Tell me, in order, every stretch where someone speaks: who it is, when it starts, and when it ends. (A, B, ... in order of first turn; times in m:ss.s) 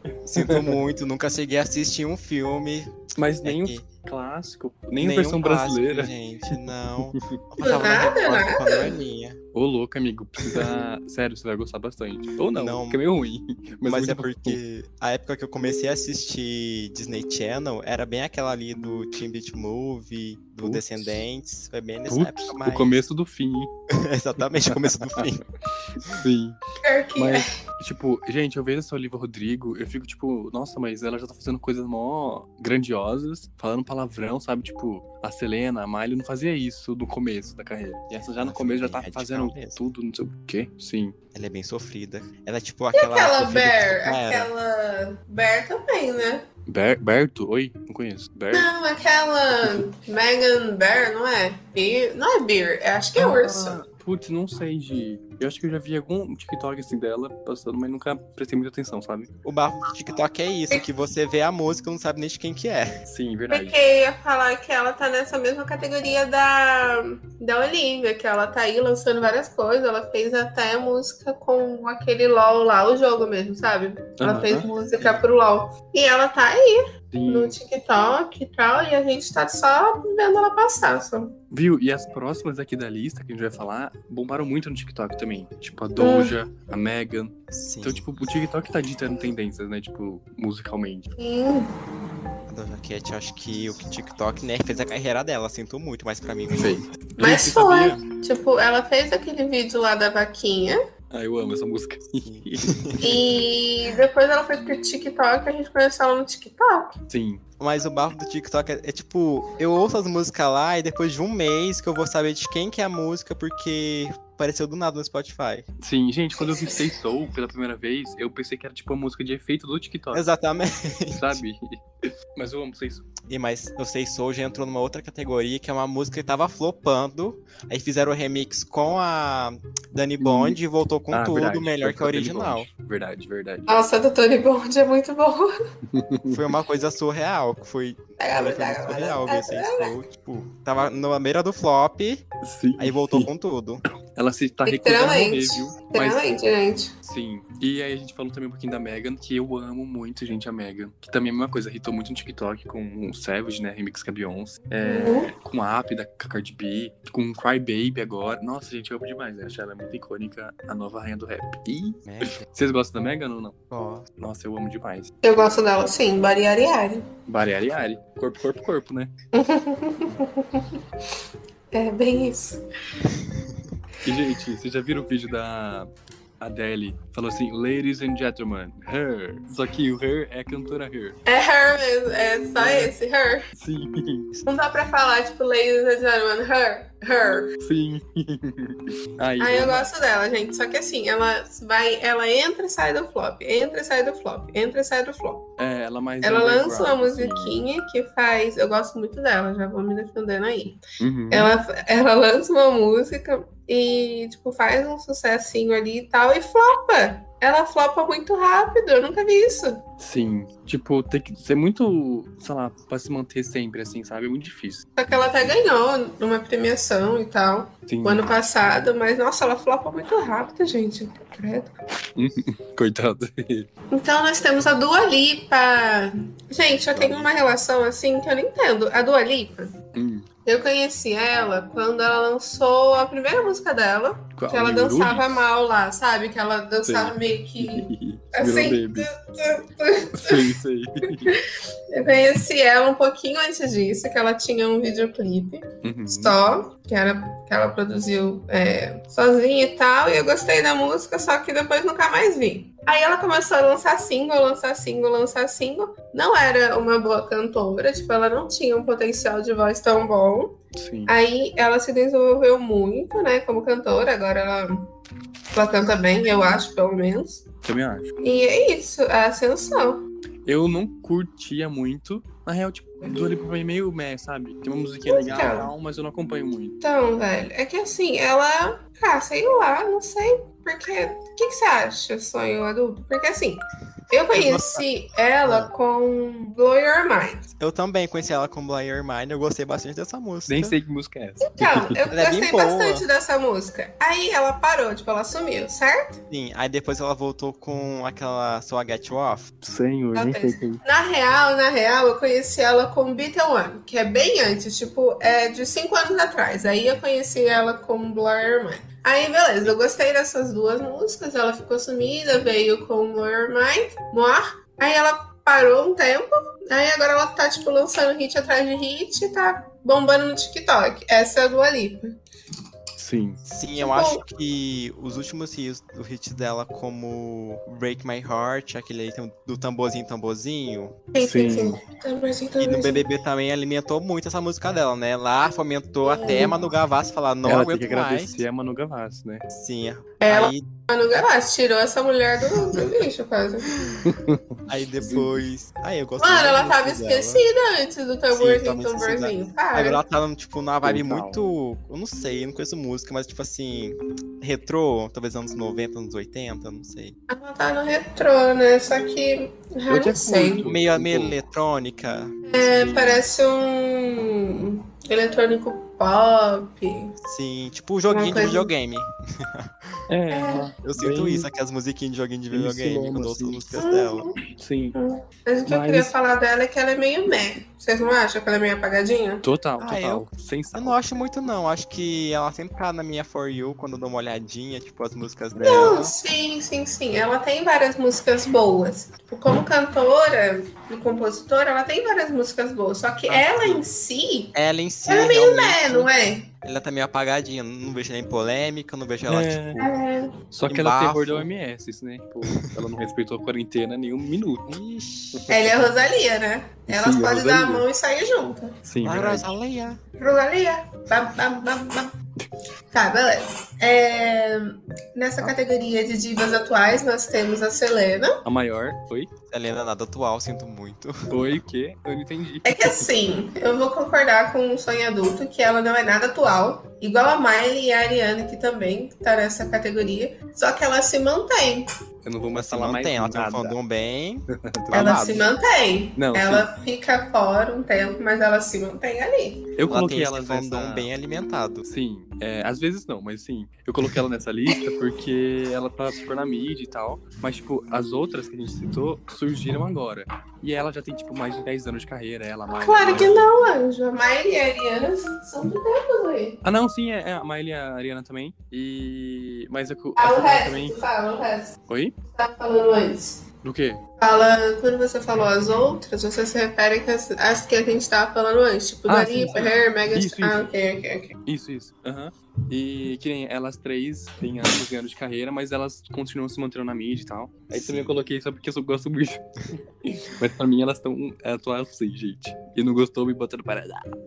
0:00.2-0:03.8 A
0:00.4-0:00.8 B
0:03.2-0:07.4 B
0:05.0-0:09.4 A
0:07.6-0:09.0 C
0:09.5-0:14.6 B
0:10.4-0:10.7 A
0:12.6-0:13.0 A
0:13.8-0:23.0 A
0:20.6-0:21.2 B
0:22.1-0:23.7 B
0:23.9-0:25.4 A
0:24.7-0:25.2 B
0:25.9-0:26.6 B
0:26.8-0:27.5 C
0:27.2-0:41.2 B
0:38.4-0:39.8 A
0:41.3-0:44.5 A
0:42.9-0:46.4 C
0:46.7-0:48.7 B
0:48.5-0:53.8 C
0:49.5-0:49.9 B
0:53.2-0:59.3 B
0:59.4-1:03.0 A
1:03.1-1:03.8 B
1:03.5-1:21.4 C
1:14.2-1:15.2 B
1:17.1-1:17.6 B
1:21.5-1:31.1 B
1:26.0-1:26.4 C
1:27.5-1:28.1 A
1:31.2-1:31.7 C
1:32.5-1:36.8 A
1:36.5-1:38.0 B
1:37.2-1:40.8 C
1:41.1-1:43.0 B
1:42.2-1:43.2 A
1:43.0-1:47.0 C
1:47.1-1:47.4 B
1:47.6-1:55.7 A
1:55.8-2:00.2 B
2:00.1-2:01.4 A
2:01.1-2:03.1 B
2:03.3-2:12.7 A
2:10.2-2:10.6 B
2:11.1-2:13.7 B
2:13.7-2:15.5 C
2:15.9-2:16.4 B
2:16.3-2:22.2 A
2:18.2-2:19.9 C
2:22.4-2:23.3 B
2:22.8-2:23.8 A
2:24.1-2:26.2 B
2:24.7-2:26.9 C
2:27.0-2:43.6 B
2:34.8-2:35.3 C
2:42.1-2:42.4 A
2:43.7-2:44.1 A
2:44.2-2:45.1 B
2:45.2-2:47.1 C
2:47.3-2:49.1 B
2:49.3-2:50.8 C
2:51.7-2:52.6 C
2:54.0-3:01.2 B
3:01.2-3:03.4 C
3:02.6-3:02.9 B
3:03.5-3:04.3 B
3:04.4-3:07.5 C
3:07.6-3:09.9 B
3:09.4-3:15.4 C
3:15.6-3:17.6 B
3:16.2-3:20.8 C
3:21.0-3:21.5 B
3:21.3-3:29.8 C
3:30.0-3:35.6 B
3:35.0-3:41.7 C
3:37.9-3:38.3 B
3:42.2-3:43.7 B
3:43.9-3:49.7 C
3:46.9-3:47.3 A
3:49.9-3:50.3 B
3:50.4-4:00.5 C
3:54.4-3:55.3 B
3:56.8-3:59.1 B
4:00.1-4:01.3 B
4:01.3-4:20.6 C
4:05.8-4:06.4 B
4:20.8-4:21.1 B
4:21.1-4:24.9 C
4:25.5-4:27.4 C
4:27.6-4:28.1 B
4:28.2-4:30.0 C
4:30.4-4:36.8 B
4:35.1-4:35.7 C
4:36.8-4:47.5 C
4:44.3-4:44.8 A
4:45.4-4:45.7 A
4:47.6-4:50.8 A
4:50.5-4:52.0 B
4:51.4-4:56.2 C
4:52.1-4:53.0 A
4:56.3-4:59.5 A
4:59.6-5:00.8 B
5:00.2-5:22.2 C
5:23.0-5:23.4 B
5:23.4-5:31.0 A
5:23.8-5:24.2 C
5:31.1-5:33.1 C
5:31.2-5:31.8 B
5:32.6-5:38.4 A
5:36.0-5:36.7 C
5:37.4-5:39.4 B
5:39.5-5:40.7 A
5:40.2-5:43.7 C
5:44.0-5:45.5 B
5:44.7-5:47.4 A
5:46.2-5:50.0 C
5:48.3-5:49.4 B
5:49.7-5:57.2 A
5:50.8-5:51.4 B
5:57.3-6:00.6 C
5:59.9-6:01.4 B
6:00.6-6:03.2 A
6:02.4-6:07.1 C
6:07.2-6:10.0 A
6:08.1-6:08.7 C
6:10.1-6:11.5 B
6:10.3-6:10.7 C
6:10.8-6:14.3 A
6:12.5-6:13.7 B
6:13.8-6:14.4 C
6:14.6-6:15.0 B
6:14.9-6:19.4 C
6:15.7-6:16.1 B
6:19.4-6:21.0 B
6:19.8-6:26.0 A
6:25.5-6:26.1 B
6:25.6-6:34.5 C
6:33.3-6:33.8 B
6:33.3-6:33.8 A
6:34.6-6:36.1 A
6:35.1-6:36.5 C
6:36.6-6:39.9 A
6:39.3-6:39.8 B
6:39.8-6:40.3 C
6:40.5-6:44.8 B
6:40.7-6:41.5 A
6:44.7-6:45.5 A
6:45.5-6:48.7 C
6:46.9-6:47.9 B
6:48.8-6:49.5 B
6:49.0-6:50.0 A
6:50.2-6:52.1 C
6:52.9-6:58.4 C
6:58.4-6:59.3 B
6:59.5-7:01.6 A
7:01.3-7:03.1 B
7:02.6-7:11.9 C
7:12.2-7:13.8 B
7:12.5-7:15.5 A
7:14.6-7:15.3 B
7:14.9-7:19.7 C
7:16.2-7:16.7 B
7:19.8-7:21.1 B
7:19.9-7:21.8 A
7:21.8-7:33.4 B
7:32.7-7:36.6 C
7:36.6-7:41.0 B
7:40.2-7:41.7 C
7:41.9-7:42.2 B
7:42.3-7:43.4 C
7:43.6-7:44.0 B
7:44.2-7:51.4 C
7:49.1-7:50.7 B
7:51.4-8:04.0 B
7:57.7-7:58.2 A